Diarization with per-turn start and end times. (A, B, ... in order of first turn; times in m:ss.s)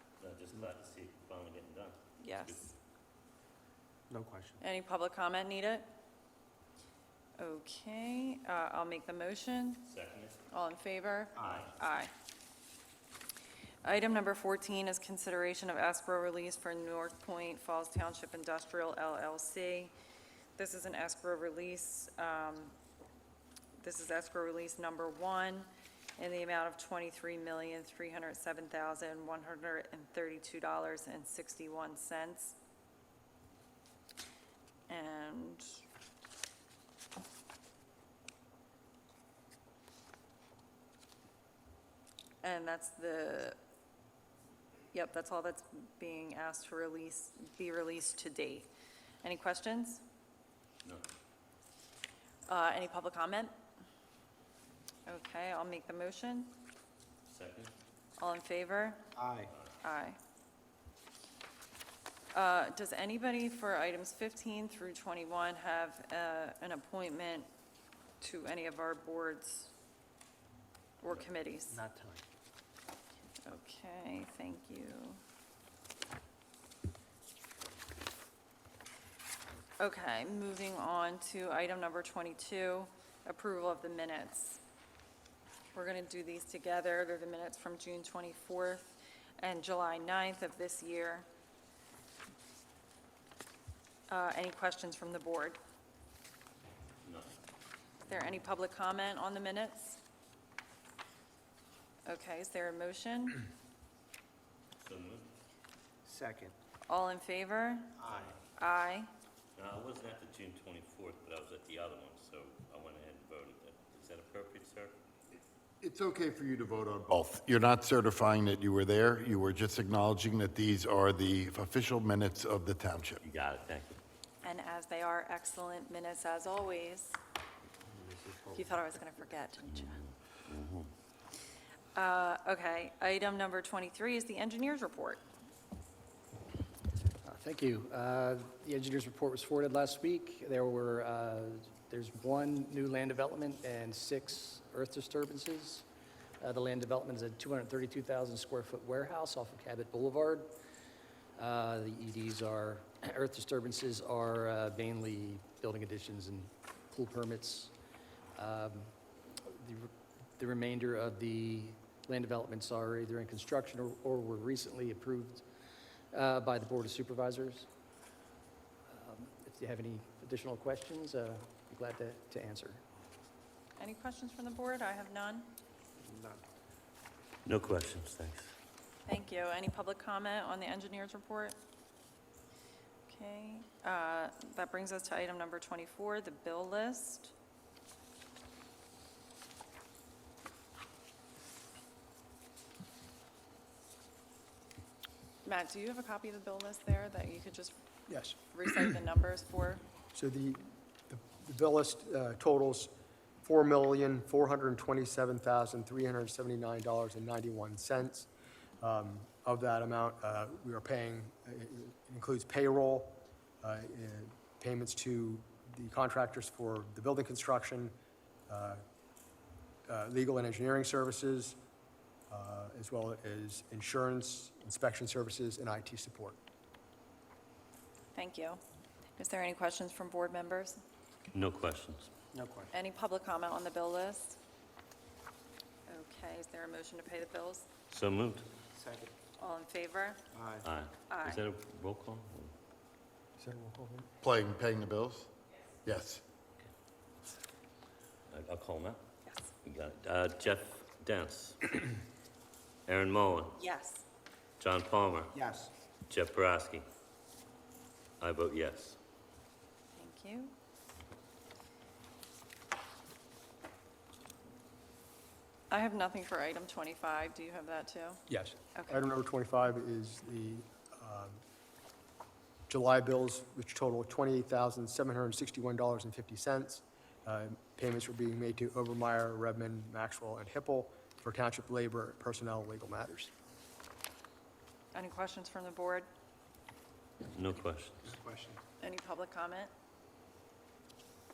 0:00.2-0:02.6 A
0:02.2-0:02.7 B
0:04.1-0:04.6 C
0:04.6-0:05.9 B
0:07.4-0:09.9 B
0:09.9-0:10.4 A
0:10.5-0:12.1 B
0:11.4-0:11.7 A
0:13.8-0:19.9 B
0:20.6-0:22.8 B
0:23.8-0:32.6 B
0:34.9-0:35.8 B
0:42.4-0:43.6 B
0:44.9-0:48.7 B
0:49.2-0:50.0 B
0:52.5-0:53.5 B
0:55.1-0:56.6 B
0:57.3-0:57.7 A
0:58.2-0:59.1 B
0:59.2-0:59.5 C
0:59.8-1:00.2 B
1:02.3-1:07.5 B
1:08.2-1:09.7 B
1:11.0-1:11.8 B
1:11.7-1:12.2 C
1:13.4-1:15.2 B
1:19.8-1:24.6 B
1:25.7-1:31.3 B
1:34.1-1:35.6 B
1:37.0-1:37.3 A
1:38.1-1:40.0 B
1:42.1-1:43.4 B
1:44.8-1:45.3 A
1:46.0-1:46.6 C
1:46.9-1:47.9 B
1:48.0-1:48.3 C
1:48.1-1:48.4 A
1:48.6-1:49.1 B
1:49.6-1:54.9 A
1:55.8-2:03.2 D
2:03.2-2:03.9 A
2:04.4-2:07.2 B
2:07.9-2:08.6 C
2:08.5-2:10.0 B
2:09.7-2:10.9 A
2:12.0-2:15.2 B
2:17.2-2:25.9 E
2:26.4-2:30.6 E
2:31.4-2:37.7 E
2:38.4-2:45.4 E
2:46.1-2:47.7 E
2:48.9-2:52.8 E
2:53.8-2:55.6 B
2:56.0-2:56.4 C
2:57.5-2:58.5 A
2:59.1-3:01.6 B
3:03.1-3:07.3 B
3:15.4-3:17.8 B
3:18.1-3:18.4 F
3:18.4-3:19.8 B
3:20.1-3:22.9 F
3:23.4-3:28.3 F
3:28.8-3:37.9 F
3:38.5-3:38.8 F
3:39.9-3:41.6 F
3:42.3-3:46.4 F
3:48.2-3:48.6 B
3:49.2-3:50.8 B
3:51.3-3:52.1 A
3:52.3-3:52.7 C
3:52.7-3:54.4 B
3:55.9-3:57.7 B
3:57.9-3:58.5 A
3:58.7-3:59.1 C
3:59.4-4:00.2 B
4:00.3-4:00.7 C
4:00.6-4:02.5 A
4:01.1-4:01.4 B
4:03.4-4:04.1 F
4:04.2-4:05.3 D
4:05.9-4:06.2 D
4:08.3-4:09.0 A
4:09.6-4:11.7 A
4:12.9-4:13.6 A
4:13.6-4:14.0 B
4:14.6-4:15.3 A
4:15.3-4:15.7 C
4:16.1-4:16.8 A
4:18.2-4:19.0 A
4:20.0-4:20.5 B
4:25.7-4:28.2 B
4:28.3-4:31.4 F
4:28.8-4:29.0 B
4:32.7-4:43.3 F
4:44.9-4:46.1 B
4:47.3-4:48.0 A
4:48.0-4:48.6 C
4:48.8-4:49.7 B